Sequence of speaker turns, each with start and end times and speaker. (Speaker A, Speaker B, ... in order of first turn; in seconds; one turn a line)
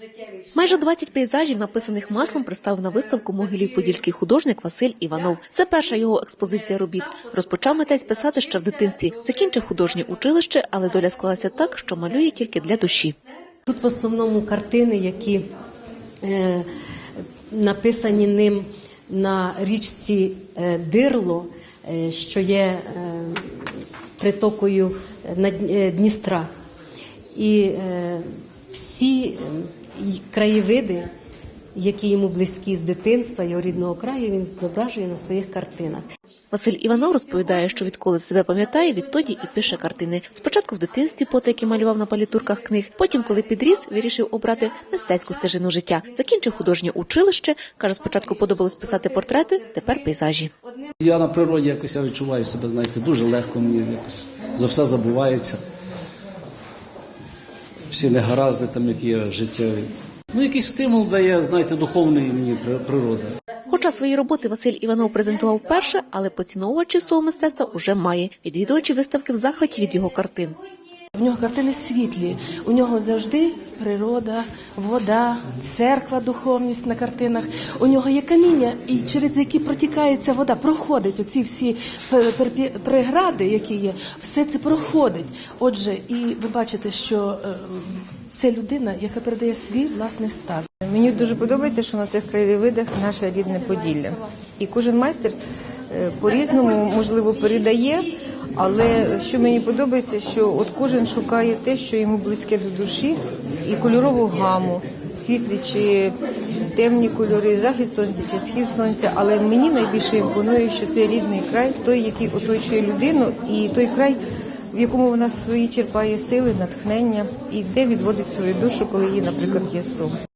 Speaker A: 0.5-13.2
Speaker B: 13.7-15.5
Speaker B: 16.2-16.6
Speaker B: 17.5-26.5
Speaker B: 27.3-31.1
Speaker B: 31.7-36.0
Speaker A: 36.5-50.5
Speaker C: 51.0-55.6
Speaker C: 57.9-63.3
Speaker A: 63.7-70.6
Speaker D: 71.2-90.7
Speaker E: 90.9-95.4
Speaker E: 95.9-106.1
Speaker E: 106.7-114.2
Speaker E: 114.7-120.2